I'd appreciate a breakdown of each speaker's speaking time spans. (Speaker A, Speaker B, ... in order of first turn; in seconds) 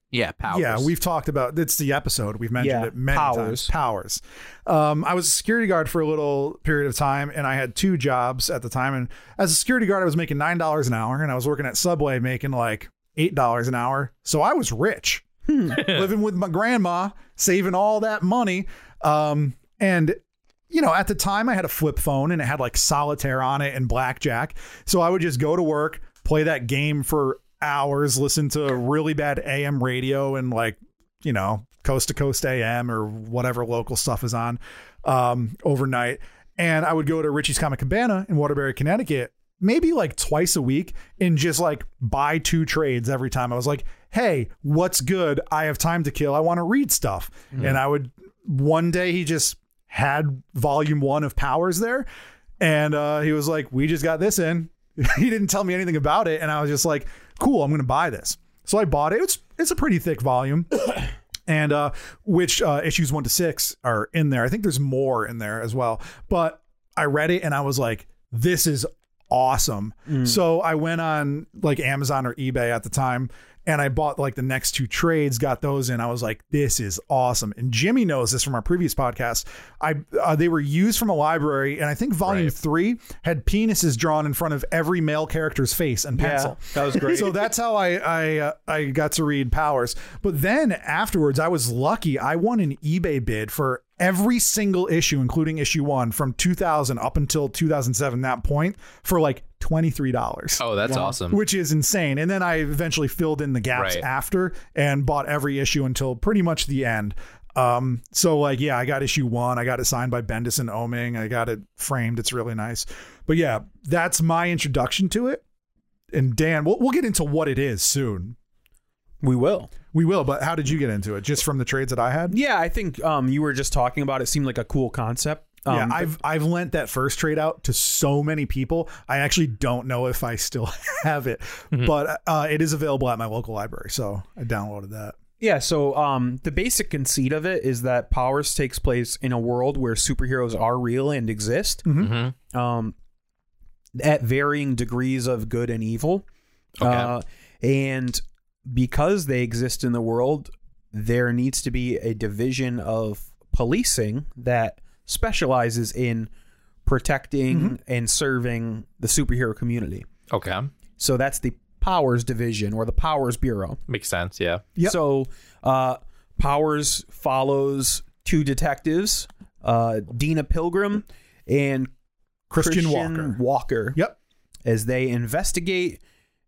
Speaker A: 0.1-0.9, 82.3-82.5, 100.6-101.4, 103.8-104.0, 142.0-142.3, 146.8-147.1, 160.3-160.7, 163.9-164.6
Speaker B: 0.5-52.1, 52.6-115.4, 116.1-118.4, 119.9-122.4, 125.7-135.2, 141.8-142.1, 157.5-157.8, 172.5-173.4
Speaker C: 2.6-3.7, 15.5-15.8, 70.1-70.4, 86.2-87.4, 119.2-119.7, 122.3-126.1, 135.4-141.9, 142.5-142.9, 144.0-146.3, 146.8-156.3, 156.8-160.1, 161.0-163.8, 164.8-171.9, 172.6-174.0, 174.7-176.0